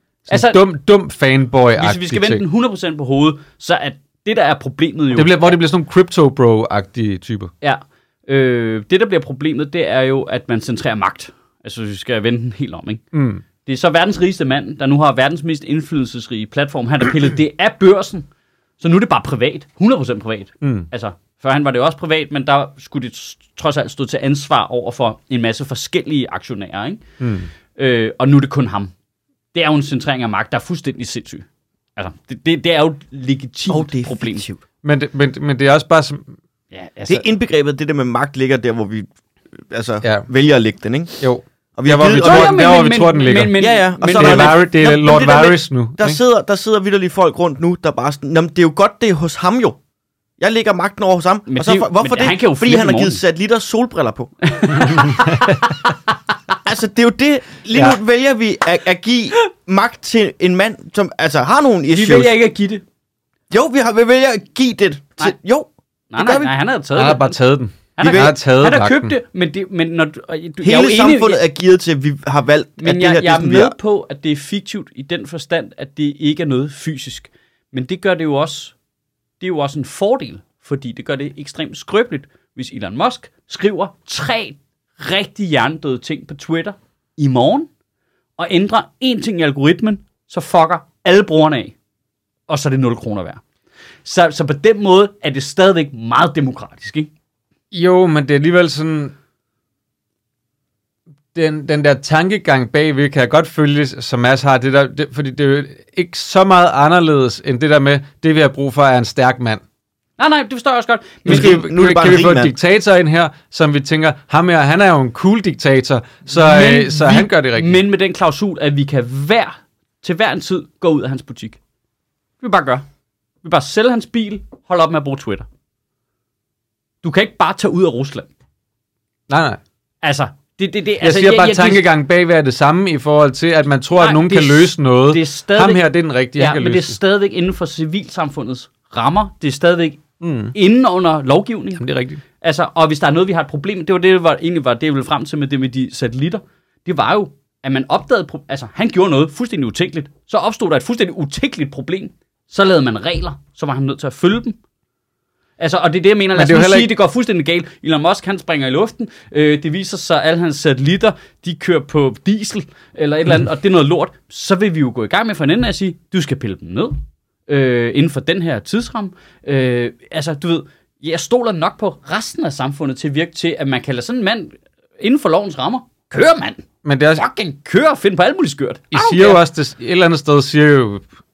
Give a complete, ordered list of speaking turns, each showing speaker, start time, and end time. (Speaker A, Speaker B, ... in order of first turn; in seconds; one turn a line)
Speaker A: 0.3-2.4
Speaker B: 0.3-0.6
Speaker B: 1.8-5.5
Speaker A: 5.1-7.5
Speaker B: 7.6-13.0
Speaker A: 13.1-13.4
Speaker B: 13.6-18.3
Speaker B: 18.8-27.0
Speaker A: 20.6-20.9
Speaker A: 27.2-27.5
Speaker B: 27.7-28.9
Speaker B: 29.5-31.4
Speaker B: 32.0-34.5
Speaker C: 33.7-34.5
Speaker A: 34.8-36.3
Speaker B: 36.7-37.2
Speaker C: 37.1-39.1
Speaker C: 39.7-41.1
Speaker A: 41.2-43.6
Speaker C: 41.8-42.6
Speaker B: 42.2-44.6
Speaker C: 43.6-49.8
Speaker A: 44.2-46.2
Speaker C: 50.4-54.9
Speaker B: 51.5-53.2
Speaker B: 54.4-55.9
Speaker A: 54.9-55.6
Speaker C: 56.6-62.3
Speaker B: 61.9-62.8
Speaker C: 63.5-66.5
Speaker B: 66.1-67.4
Speaker A: 67.0-69.1
Speaker B: 68.0-71.4
Speaker C: 68.0-68.3
Speaker C: 70.6-73.7
Speaker B: 72.8-78.7
Speaker B: 79.4-87.7
Speaker B: 88.4-91.7
Speaker B: 92.5-93.4
Speaker B: 94.0-97.1
Speaker A: 97.7-99.1
Speaker A: 101.3-109.6
Speaker B: 110.2-111.5
Speaker C: 111.2-112.5
Speaker A: 111.2-117.8
Speaker B: 116.3-121.6
Speaker B: 122.4-122.8
Speaker B: 123.4-125.5
Speaker B: 127.0-128.3
Speaker A: 129.3-129.6
Speaker B: 130.0-131.9
Speaker A: 131.0-137.0
Speaker B: 133.9-135.8
Speaker B: 136.3-141.8
Speaker A: 140.2-140.5
Speaker A: 141.8-142.2
Speaker B: 142.4-154.6
Speaker B: 155.6-179.4
Speaker A: 156.3-156.9
Speaker A: 176.8-177.2
Speaker A: 178.9-181.1